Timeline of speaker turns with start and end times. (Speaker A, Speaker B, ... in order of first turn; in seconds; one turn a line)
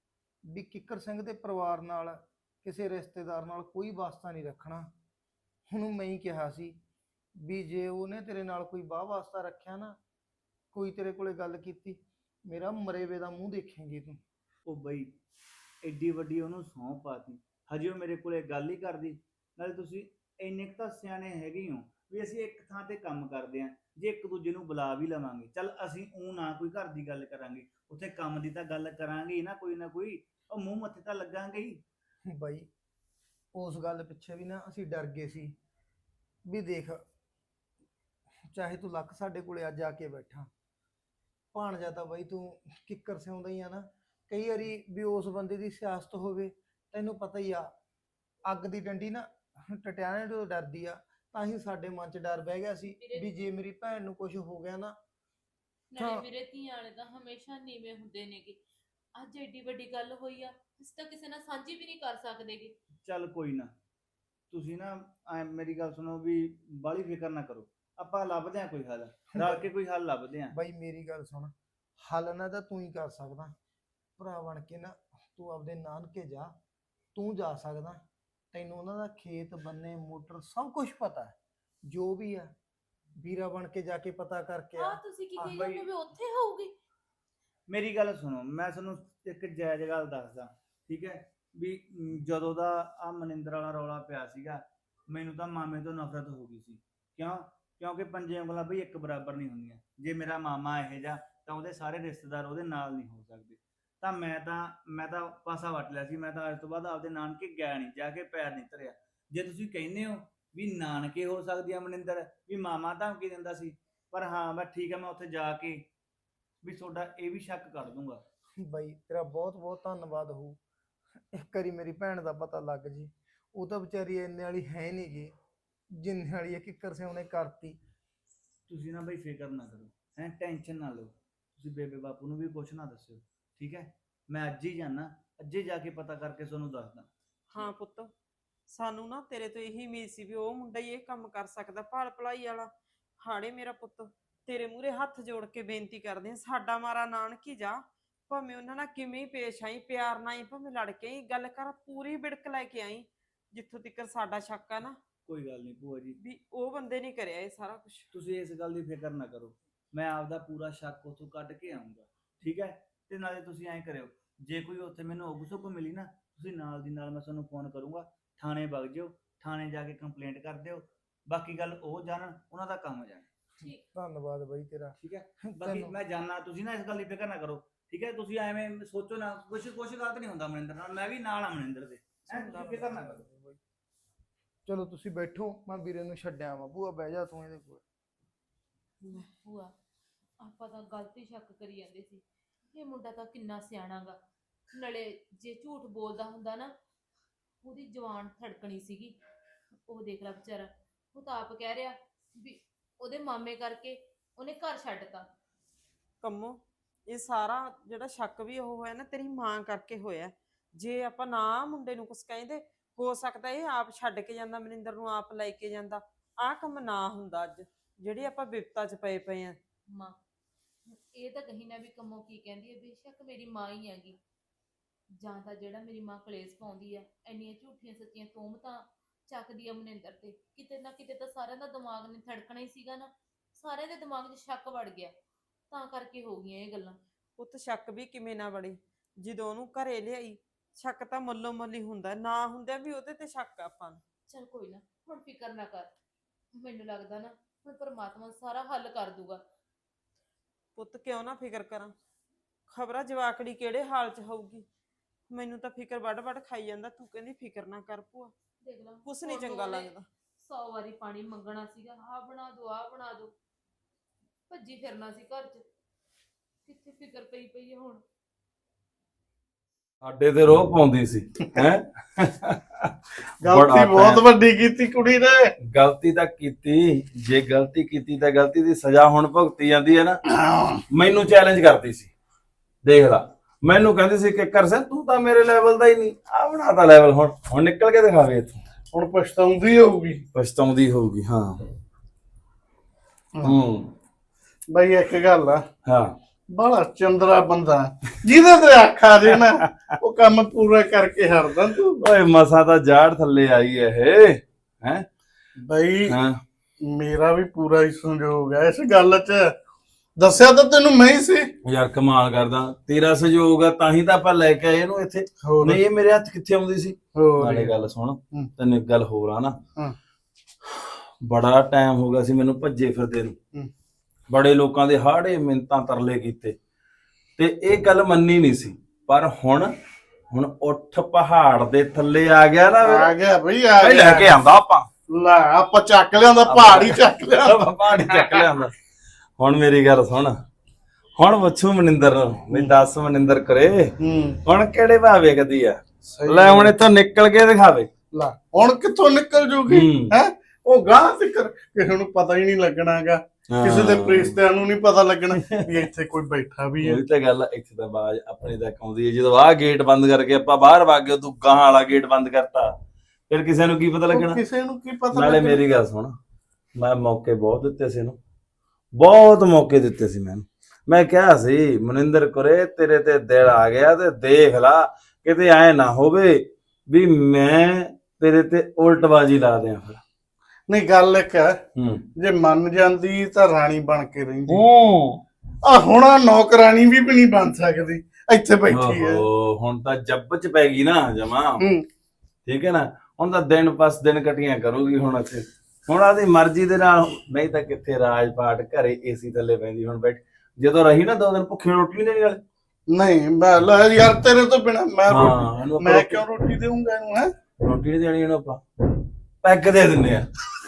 Speaker A: 0.5-4.9
Speaker A: 5.7-6.8
Speaker A: 7.4-10.0
Speaker A: 10.7-14.2
Speaker B: 14.7-15.2
Speaker B: 15.8-31.8
Speaker A: 32.3-32.7
Speaker A: 33.5-35.5
Speaker A: 36.5-37.0
Speaker A: 38.5-40.5
Speaker A: 41.5-47.7
Speaker A: 48.5-55.0
Speaker C: 53.0-53.3
Speaker C: 55.9-58.6
Speaker A: 56.0-56.2
Speaker C: 59.2-62.7
Speaker B: 63.0-63.7
Speaker B: 64.5-70.5
Speaker A: 69.4-69.6
Speaker A: 70.5-73.5
Speaker A: 74.2-76.5
Speaker A: 77.1-81.3
Speaker A: 81.9-82.5
Speaker A: 83.2-85.6
Speaker C: 84.8-86.7
Speaker B: 85.5-85.8
Speaker B: 87.7-115.9
Speaker B: 116.6-118.2
Speaker A: 118.6-120.6
Speaker A: 121.3-125.3
Speaker A: 125.9-127.8
Speaker B: 128.7-137.1
Speaker D: 137.5-138.1
Speaker D: 138.7-142.7
Speaker D: 143.2-155.0
Speaker B: 155.2-156.2
Speaker D: 156.2-158.1
Speaker B: 158.1-173.3
Speaker A: 173.6-175.9
Speaker B: 175.0-183.2
Speaker D: 182.3-183.1
Speaker A: 182.5-183.6
Speaker A: 184.7-187.8
Speaker C: 189.1-189.7
Speaker C: 190.4-194.2
Speaker C: 194.7-196.7
Speaker C: 197.6-199.1
Speaker C: 199.9-205.3
Speaker D: 206.2-219.6
Speaker C: 219.9-220.2
Speaker C: 220.9-224.2
Speaker C: 225.2-235.1
Speaker C: 235.7-237.0
Speaker D: 237.4-244.0
Speaker C: 244.3-245.9
Speaker C: 246.5-249.4
Speaker D: 250.8-251.9
Speaker D: 252.7-254.7
Speaker D: 255.3-258.3
Speaker C: 258.6-263.3
Speaker D: 259.0-260.1
Speaker C: 264.5-265.6
Speaker C: 266.6-268.0
Speaker E: 270.0-272.9
Speaker F: 273.4-275.5
Speaker E: 273.5-274.2
Speaker E: 275.6-280.2
Speaker F: 280.3-280.8
Speaker E: 280.9-282.1
Speaker E: 282.8-288.6
Speaker F: 288.9-290.2
Speaker E: 290.3-291.6
Speaker E: 293.4-293.9
Speaker F: 294.7-295.6
Speaker E: 295.9-296.1
Speaker F: 296.5-302.0
Speaker E: 302.0-305.1
Speaker F: 305.7-306.1
Speaker E: 306.1-306.4
Speaker F: 306.8-309.5
Speaker F: 310.2-311.5
Speaker E: 311.6-319.6
Speaker F: 315.4-315.8
Speaker F: 317.1-317.7
Speaker E: 320.8-323.4
Speaker E: 324.3-326.6
Speaker E: 327.4-329.7
Speaker E: 330.3-333.1
Speaker F: 332.8-334.4
Speaker E: 333.8-334.9
Speaker F: 335.1-338.4
Speaker E: 336.5-338.7
Speaker E: 339.4-340.4
Speaker E: 341.2-347.9
Speaker F: 344.0-344.4
Speaker F: 346.1-346.7
Speaker F: 348.1-357.0
Speaker E: 349.7-350.1
Speaker E: 353.5-354.4
Speaker E: 355.4-355.6
Speaker E: 356.8-362.7
Speaker E: 363.3-364.4
Speaker F: 364.1-365.6
Speaker E: 365.1-366.1
Speaker E: 366.8-368.2
Speaker E: 369.0-380.0
Speaker F: 380.7-381.6
Speaker E: 381.8-382.0
Speaker F: 382.2-384.6
Speaker E: 384.5-385.2
Speaker F: 385.6-389.2
Speaker E: 388.7-391.6
Speaker F: 391.6-391.8
Speaker E: 392.4-402.4
Speaker F: 402.9-407.3
Speaker E: 405.1-406.2
Speaker E: 407.6-408.6
Speaker E: 409.4-410.3